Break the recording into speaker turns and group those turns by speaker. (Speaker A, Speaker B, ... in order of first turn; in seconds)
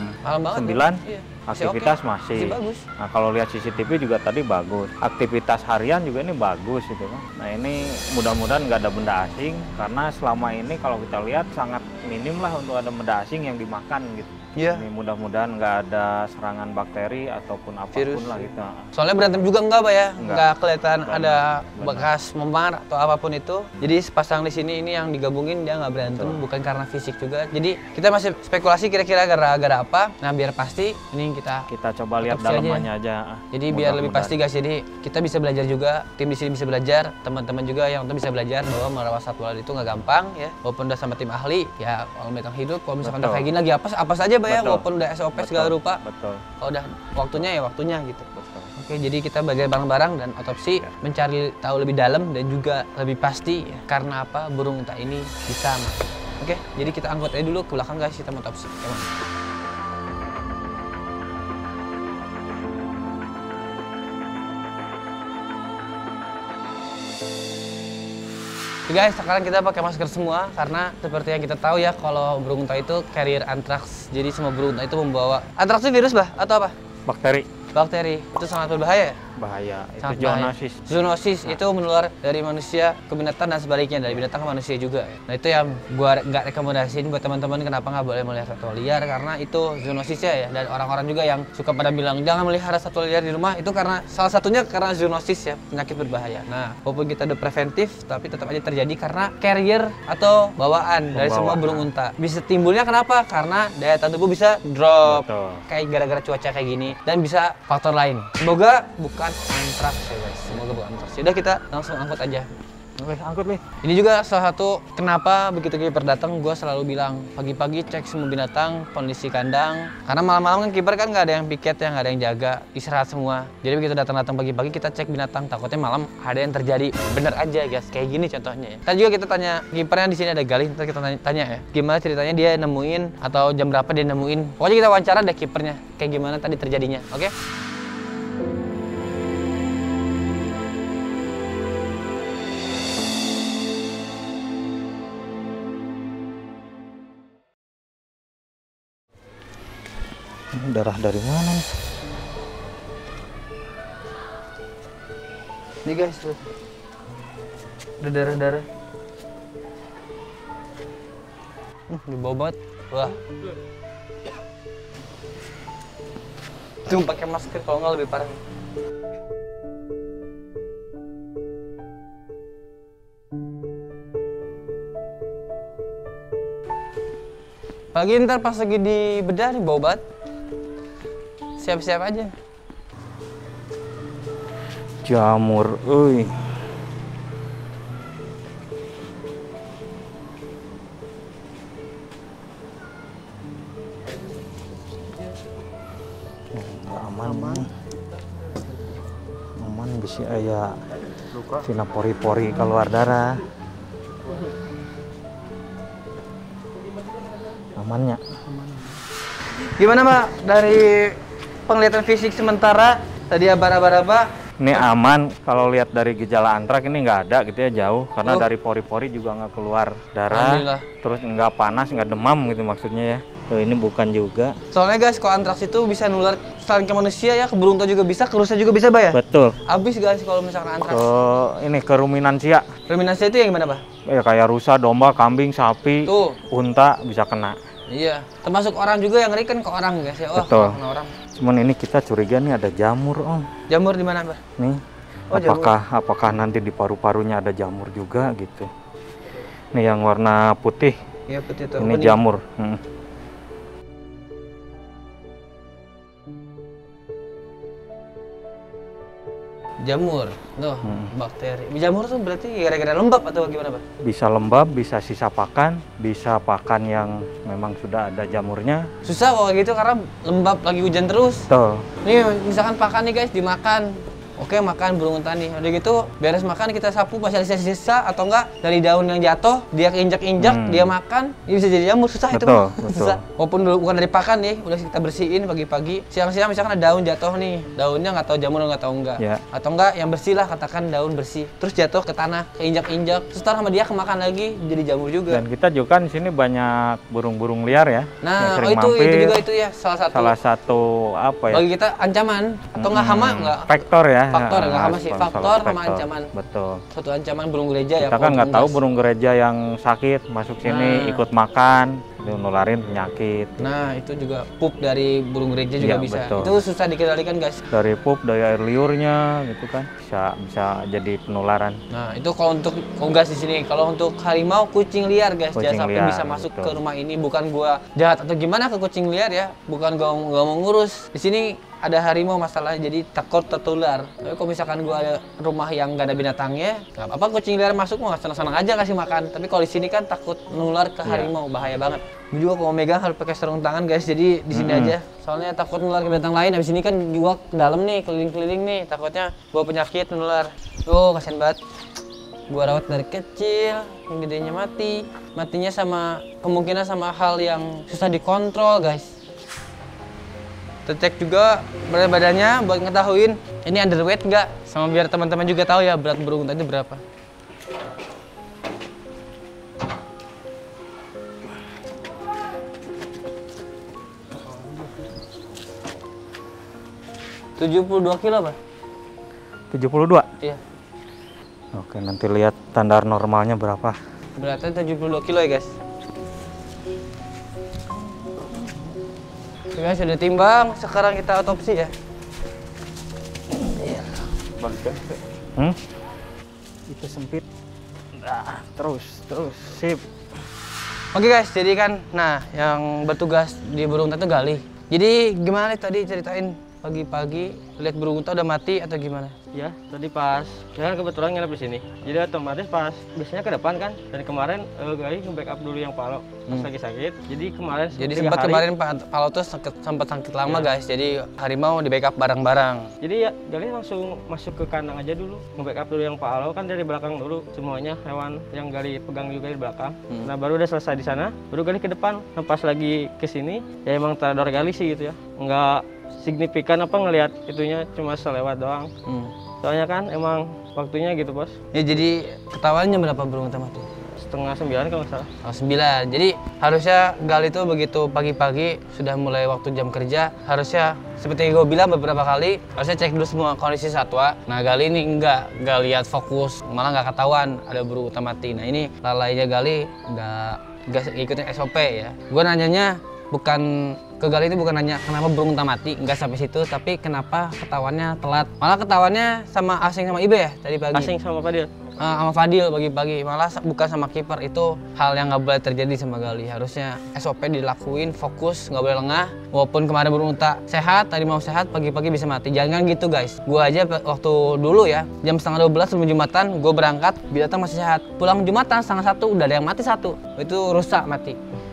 Speaker A: 0.2-2.8, 14.6-14.8, 17.9-31.7, 32.2-32.9, 33.5-46.0, 46.6-59.1, 68.9-76.7, 77.8-79.2, 80.0-112.5, 113.8-137.3, 155.8-156.4, 158.0-158.7, 161.9-163.2, 166.8-168.4, 177.9-180.0, 181.6-182.3, 209.7-214.3, 220.3-220.8, 224.7-231.0, 232.9-233.8, 236.0-236.4, 237.9-241.1, 243.7-244.4, 245.3-245.8, 251.3-252.2, 259.8-263.8, 269.1-271.5, 272.0-295.4, 298.2-300.4, 301.5-306.3, 306.9-308.8, 310.6-311.2, 313.6-317.6, 321.9-351.6, 352.5-359.2, 360.9-367.0, 377.6-378.6, 384.4-385.7, 389.7-391.9, 401.1-409.4, 417.9-422.9, 439.1-439.3, 441.7-443.9, 445.4-471.1, 472.0-491.4
Speaker B: 0.5-18.9, 20.2-20.5, 21.1-22.1, 26.0-26.4, 31.7-34.4, 43.0-43.5, 44.5-44.8, 45.4-46.4, 48.3-48.7, 77.1-77.5, 79.4-81.0, 101.1-101.9, 105.0-105.6, 113.0-113.7, 150.5-151.7, 185.0-186.4, 196.5-197.7, 199.6-200.8, 201.5-203.4, 207.8-208.2, 214.6-224.6, 229.1-229.6, 230.8-232.7, 234.1-237.6, 240.3-240.8, 241.4-243.5, 244.6-248.7, 249.7-251.0, 251.8-252.8, 260.8-261.1, 264.0-268.9, 271.5-271.9, 280.4-280.9, 282.3-283.2, 295.3-299.4, 300.1-301.6, 302.8-306.8, 308.0-313.6, 315.8-316.6, 317.7-321.8, 325.6-326.8, 341.1-341.3, 344.5-345.0, 379.7-380.3, 381.7-384.0, 393.5-395.8, 396.9-397.4, 398.1-400.0
Speaker C: 409.5-418.7, 423.0-438.9, 439.6-441.6, 444.2-445.3, 470.9-471.7